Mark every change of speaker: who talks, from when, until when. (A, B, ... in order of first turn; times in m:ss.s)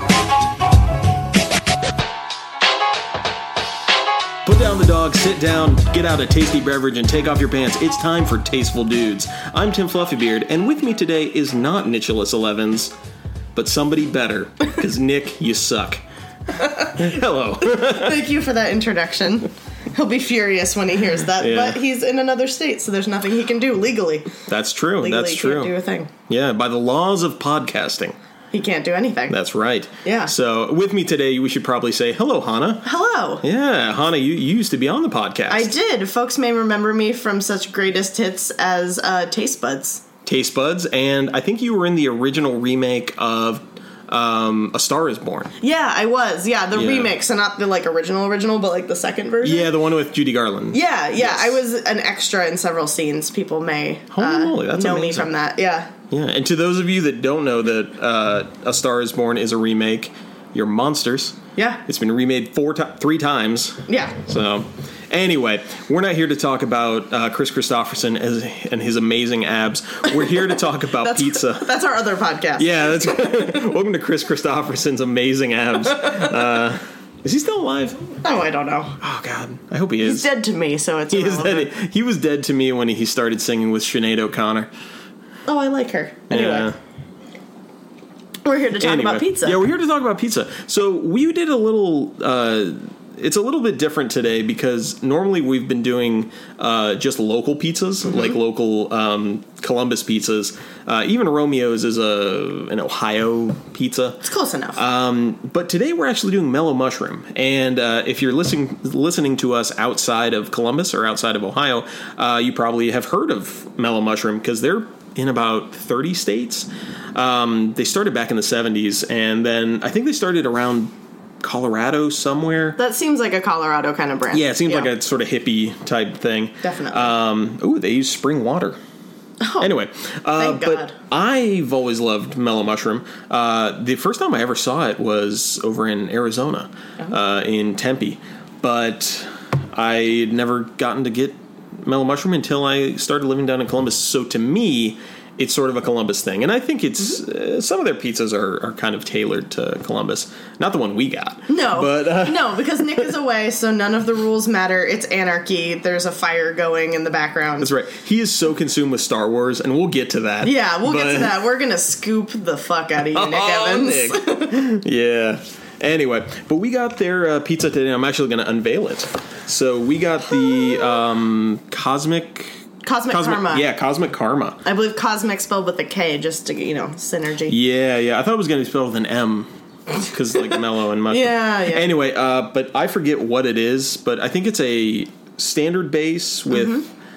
0:04.4-0:12.9 A
0:13.5-0:16.0 A
0:16.5-0:17.1 B
0:16.9-0:18.2 A
0:17.6-0:24.3 B
0:21.4-0:21.8 A
0:24.5-0:25.7 A
0:25.0-0:26.1 B
0:26.3-0:28.2 A
0:28.5-0:29.4 B
0:29.3-0:32.9 A
0:30.0-0:30.3 B
0:32.8-0:33.4 B
0:33.4-0:35.7 A
0:35.5-0:40.0 B
0:40.2-0:45.5 A
0:45.6-0:49.7 B
0:46.7-0:47.1 A
0:49.4-0:51.6 A
0:50.7-0:55.9 B
0:54.1-0:55.3 A
0:56.1-1:11.7 A
1:01.6-1:01.8 B
1:03.9-1:04.2 B
1:11.0-1:13.7 B
1:12.6-1:18.1 A
1:15.8-1:16.4 B
1:18.2-1:19.0 B
1:19.0-1:20.3 A
1:20.0-1:21.7 B
1:21.1-1:24.7 A
1:25.4-1:26.7 B
1:26.3-1:26.8 A
1:28.4-1:29.6 B
1:28.8-1:44.2 A
1:44.2-1:44.8 B
1:44.8-2:02.8 A
2:02.8-2:04.9 B
2:04.3-2:08.8 A
2:06.6-2:07.1 B
2:09.4-2:09.7 B
2:09.6-2:33.1 A
2:10.4-2:10.9 B
2:31.5-2:37.7 B
2:37.6-2:41.3 A
2:40.4-2:44.6 B
2:43.0-2:54.6 A
2:52.8-2:53.6 B
2:54.6-2:57.6 B
2:57.5-3:06.8 A
3:00.4-3:01.9 B
3:06.5-3:06.9 B